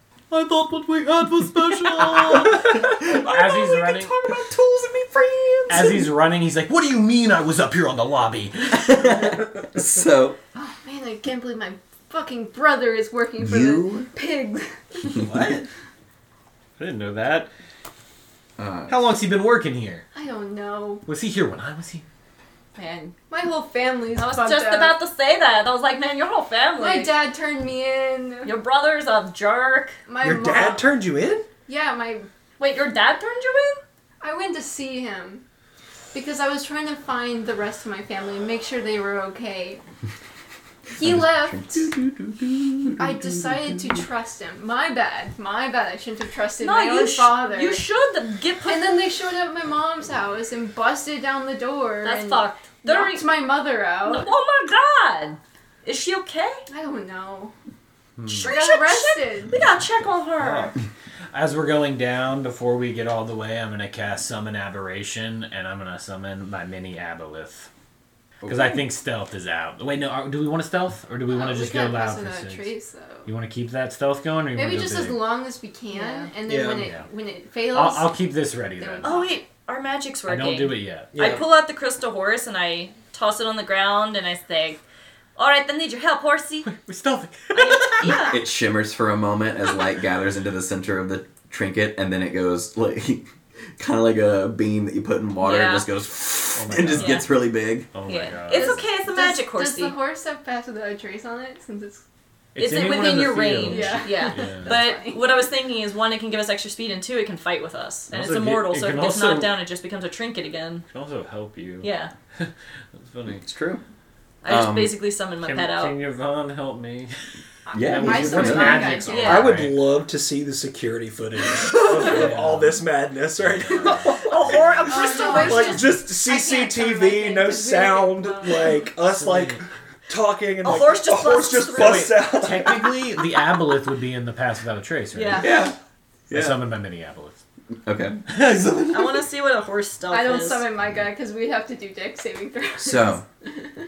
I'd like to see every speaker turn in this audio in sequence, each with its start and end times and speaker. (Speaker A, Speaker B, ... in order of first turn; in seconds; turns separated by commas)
Speaker A: 1.2-6.0, Speaker B: 1.3-4.1, Speaker C: 1.9-2.2, Speaker B: 5.7-9.2, Speaker A: 8.7-10.4, Speaker D: 10.6-15.2, Speaker A: 13.4-14.1, Speaker B: 15.1-15.7, Speaker B: 16.8-17.5, Speaker A: 18.6-19.0, Speaker B: 18.9-20.1, Speaker D: 20.1-21.1, Speaker B: 21.1-22.1, Speaker C: 22.8-23.1, Speaker D: 23.3-25.0, Speaker C: 24.2-27.2, Speaker D: 26.8-28.5, Speaker C: 28.4-30.0, Speaker D: 30.1-30.9, Speaker E: 30.2-31.5, Speaker D: 31.7-32.3, Speaker C: 32.6-33.8, Speaker D: 34.2-35.4, Speaker D: 36.1-39.8, Speaker D: 41.0-41.9, Speaker A: 41.0-44.0, Speaker D: 43.0-47.8, Speaker C: 46.6-49.0, Speaker D: 48.7-54.3, Speaker C: 52.0-56.6, Speaker D: 56.7-57.5, Speaker B: 58.2-58.5, Speaker C: 58.3-60.8, Speaker D: 58.3-59.6, Speaker B: 60.4-60.8, Speaker B: 61.3-67.7, Speaker A: 68.4-68.7, Speaker B: 68.5-72.7, Speaker D: 71.3-73.3, Speaker B: 73.2-75.3, Speaker D: 74.5-78.2, Speaker C: 75.9-76.3, Speaker E: 76.5-76.9, Speaker B: 76.8-77.1, Speaker B: 77.7-79.3, Speaker D: 78.8-79.4, Speaker C: 79.0-84.8, Speaker B: 80.3-81.2, Speaker E: 81.1-81.5, Speaker C: 85.4-86.7, Speaker B: 86.6-88.3, Speaker C: 87.5-88.4, Speaker A: 88.0-97.9, Speaker C: 95.4-95.9, Speaker B: 96.5-97.3, Speaker C: 97.0-97.3, Speaker B: 97.9-98.8, Speaker C: 98.1-100.0, Speaker D: 98.5-102.0, Speaker B: 102.5-104.7, Speaker C: 102.6-110.8, Speaker D: 103.6-105.2, Speaker B: 108.1-109.5, Speaker B: 110.9-113.4, Speaker C: 111.8-112.1, Speaker A: 113.4-113.8, Speaker C: 114.4-116.0, Speaker A: 114.5-115.0, Speaker B: 115.4-119.8, Speaker D: 117.7-119.5, Speaker A: 117.7-119.0, Speaker C: 118.8-119.5, Speaker E: 119.2-124.4, Speaker B: 121.9-122.8, Speaker B: 123.4-124.9, Speaker C: 123.9-125.9, Speaker D: 124.9-128.7, Speaker E: 125.1-133.1, Speaker B: 129.0-129.6, Speaker C: 130.6-132.3, Speaker B: 132.3-135.6, Speaker C: 135.1-135.6, Speaker A: 135.4-135.8, Speaker A: 136.3-136.7, Speaker B: 136.3-137.4, Speaker A: 137.8-138.2, Speaker B: 138.3-139.2, Speaker C: 138.9-140.7, Speaker D: 140.1-143.7, Speaker A: 142.8-143.2